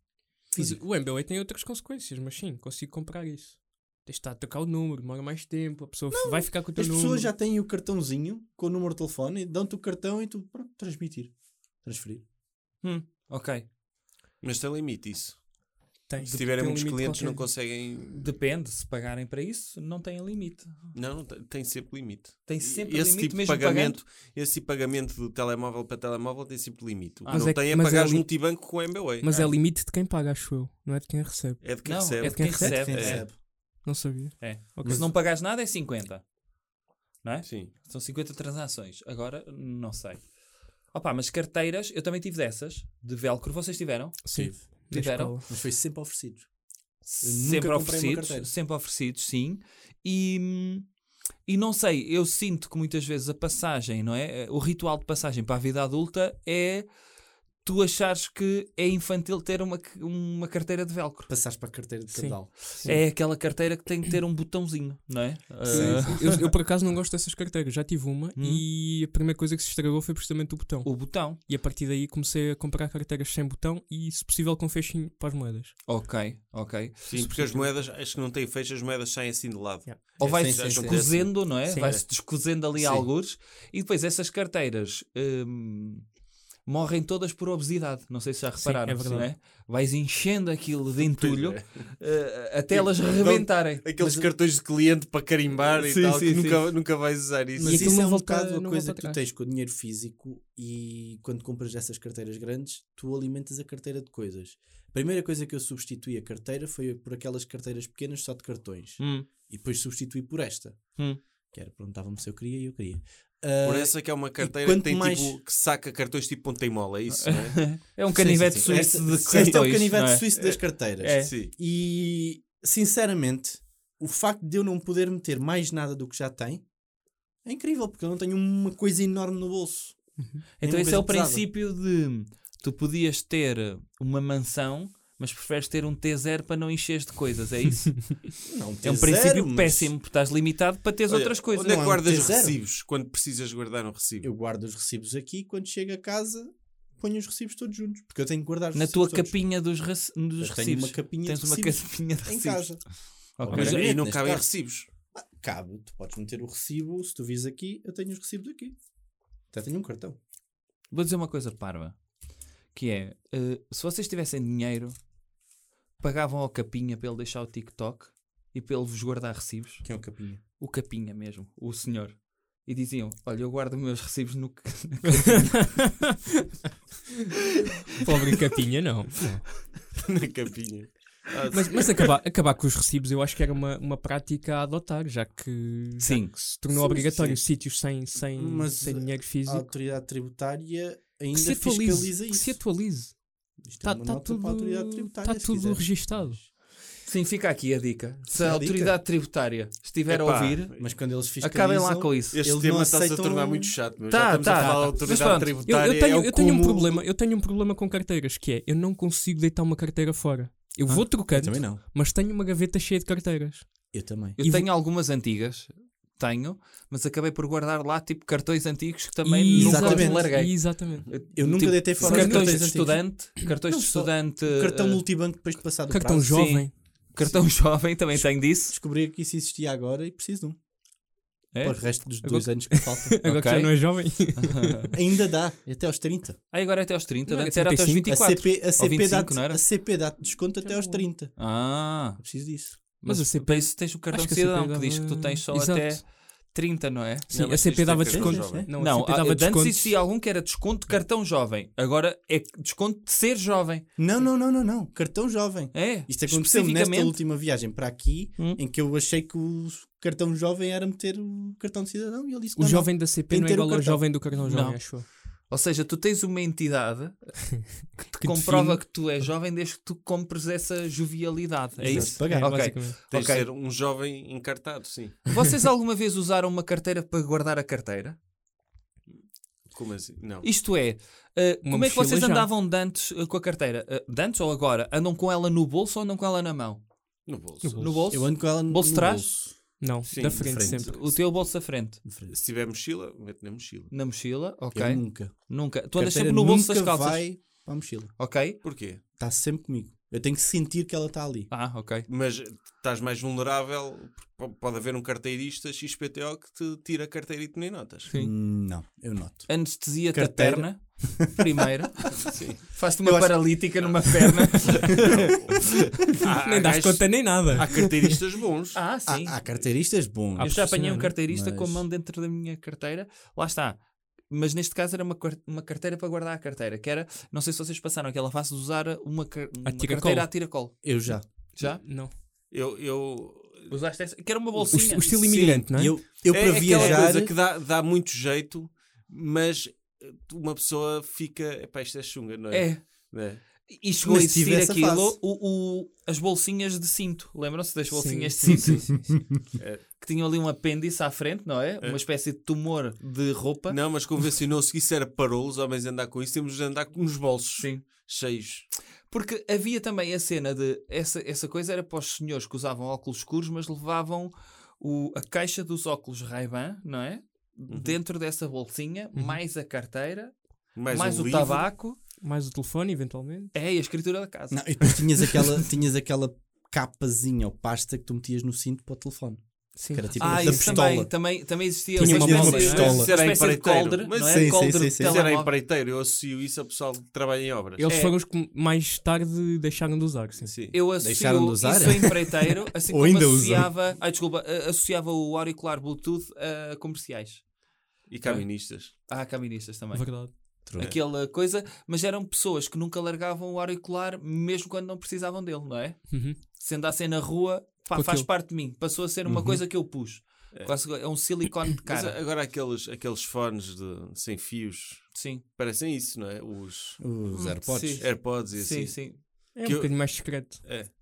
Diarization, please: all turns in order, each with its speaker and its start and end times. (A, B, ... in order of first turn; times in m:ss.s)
0:00.5-0:00.8 A
0:00.6-0:07.3 B
0:06.1-0:12.2 A
0:12.8-0:13.7 C
0:14.4-0:15.5 D
0:16.1-0:17.4 B
0:16.2-0:16.5 C
0:16.2-0:18.3 D
0:18.1-0:21.0 C
0:20.9-0:29.3 D
0:22.4-0:24.0 C
0:27.2-0:27.6 C
0:27.3-0:32.9 B
0:31.6-0:33.2 D
0:31.8-0:33.3 C
0:32.3-0:33.4 A
0:33.8-0:35.1 B
0:34.4-0:36.3 C
0:34.8-0:35.1 A
0:37.2-0:40.3 C
0:37.4-0:37.7 D
0:40.9-0:45.4 C
0:44.2-0:45.5 B
0:44.3-0:44.6 A
0:45.3-0:46.5 A
0:47.0-0:50.9 C
0:47.2-0:48.5 A
0:51.4-0:56.8 C
0:57.6-1:01.3 C
1:01.3-1:02.9 A
1:02.1-1:03.0 B
1:02.7-1:06.5 C
1:05.7-1:15.7 B
1:05.7-1:06.5 A
1:08.4-1:08.6 C
1:10.8-1:11.4 C
1:15.8-1:17.7 C
1:17.1-1:21.9 D
1:20.2-1:21.2 A
1:20.2-1:26.1 C
1:21.6-1:22.0 B
1:22.8-1:23.0 A
1:26.6-1:34.3 C
1:28.6-1:29.3 B
1:31.0-1:31.9 D
1:32.7-1:38.0 D
1:35.8-1:36.7 C
1:37.6-1:51.0 A
1:37.6-1:39.2 B
1:49.0-1:49.3 C
1:51.5-1:55.4 A
1:53.6-1:57.7 D
1:57.2-2:00.3 C
1:58.1-2:06.6 A
1:58.6-1:59.7 D
2:00.3-2:00.6 D
2:01.0-2:01.3 C
2:01.2-2:01.5 D
2:07.4-2:11.5 A
2:10.6-2:18.3 C
2:18.4-2:19.9 A
2:18.8-2:21.9 C
2:21.1-2:24.3 D
2:21.6-2:22.6 A
2:24.2-2:29.4 A
2:28.7-2:32.8 C
2:30.4-2:32.8 A
2:33.4-2:33.8 C
2:33.4-2:34.5 A
2:33.5-2:34.9 D
2:35.1-2:38.8 A
2:39.5-2:40.2 A
2:40.9-2:42.0 C
2:42.7-2:45.0 C
2:46.0-2:50.0 C
2:49.8-2:50.4 A
2:50.6-2:55.7 C
2:58.0-2:59.5 B
3:00.0-3:02.1 D
3:01.5-3:09.7 B
3:06.0-3:06.3 C
3:06.7-3:07.4 A
3:08.3-3:12.7 A
3:11.3-3:16.4 B
3:13.6-3:16.5 A
3:17.0-3:20.8 C
3:18.3-3:19.0 A
3:20.1-3:20.9 D
3:20.8-3:23.7 A
3:21.4-3:22.4 C
3:22.3-3:27.0 D
3:24.1-3:25.6 C
3:25.6-3:34.7 B
3:31.3-3:31.8 A
3:33.9-3:34.4 A
3:34.4-3:45.0 C
3:39.2-3:41.1 B
3:39.5-3:40.5 A
3:41.3-3:46.4 A
3:42.0-3:42.7 B
3:45.9-3:46.7 B
3:46.2-3:48.7 C
3:47.2-3:50.6 A
3:51.5-3:52.4 C
3:51.6-3:53.2 A
3:52.9-3:54.9 B
3:53.2-3:54.9 C
3:54.9-3:56.4 A
3:56.5-3:59.6 C
3:57.3-3:58.1 B
3:58.0-4:01.4 A
4:00.6-4:01.0 B
4:01.4-4:02.2 C
4:02.2-4:02.8 A
4:03.0-4:07.3 C
4:03.0-4:06.0 B
4:07.3-4:10.0 B
4:07.3-4:08.7 D
4:08.0-4:08.7 A
4:08.7-4:13.9 C
4:14.0-4:24.1 A
4:15.7-4:17.2 C
4:22.6-4:25.0 B
4:24.4-4:33.5 C
4:27.7-4:28.8 B
4:31.8-4:32.7 A
4:31.8-4:33.0 B
4:33.1-4:35.3 D
4:35.3-4:38.2 C
4:39.7-4:40.5 D
4:40.4-4:46.8 C
4:41.6-4:42.5 B
4:47.2-4:47.9 D
4:47.6-4:48.0 B
4:47.7-4:49.3 C
4:48.1-4:51.2 A
4:49.8-4:51.0 B
4:50.0-4:50.5 D
4:50.6-4:52.0 C
4:52.0-4:52.3 A
4:52.3-4:53.9 D
4:53.9-4:57.3 C
4:54.7-4:58.1 A
4:58.2-4:58.6 C
4:58.6-4:59.0 D
4:59.2-5:01.5 A
5:01.5-5:02.1 C
5:02.1-5:08.1 D
5:08.1-5:08.3 C
5:08.1-5:11.4 A
5:09.5-5:15.0 C
5:12.3-5:12.7 D
5:13.0-5:13.7 A
5:14.7-5:18.8 D
5:16.4-5:18.2 B
5:18.7-5:19.4 C
5:19.0-5:21.8 A
5:20.3-5:21.1 B
5:20.4-5:31.8 C
5:29.6-5:30.3 B
5:30.8-5:31.2 A
5:31.6-5:32.1 B
5:32.5-5:33.7 D
5:33.7-5:35.2 C
5:34.7-5:36.0 B
5:35.1-5:43.4 D
5:35.7-5:37.3 A
5:42.5-5:43.1 C
5:43.6-5:49.0 C
5:44.0-5:45.2 A
5:47.9-5:49.0 B
5:49.6-5:49.8 D
5:49.9-5:53.8 C
5:53.7-5:58.7 D
5:57.6-5:57.8 C
5:59.1-6:12.0 C
6:07.7-6:08.0 D
6:10.8-6:11.7 D
6:12.2-6:13.5 B
6:13.5-6:15.4 C
6:14.5-6:21.3 A
6:19.8-6:20.8 B
6:20.2-6:25.5 C
6:22.0-6:23.1 B
6:22.0-6:23.0 A
6:22.6-6:27.9 D
6:24.2-6:25.2 A
6:27.8-6:30.5 B
6:27.9-6:28.2 C
6:30.4-6:30.8 D
6:30.7-6:37.4 C
6:31.0-6:33.7 A
6:38.1-6:38.9 D
6:38.2-6:52.2 C
6:39.9-6:40.3 B
6:40.6-6:40.9 A
6:46.1-6:46.4 B
6:47.9-6:48.3 B
6:49.2-6:49.6 A
6:51.8-6:57.0 D
6:55.1-6:55.4 C
6:57.0-6:58.1 A
6:57.3-6:59.2 C
6:58.0-7:00.9 D
6:59.5-7:00.6 B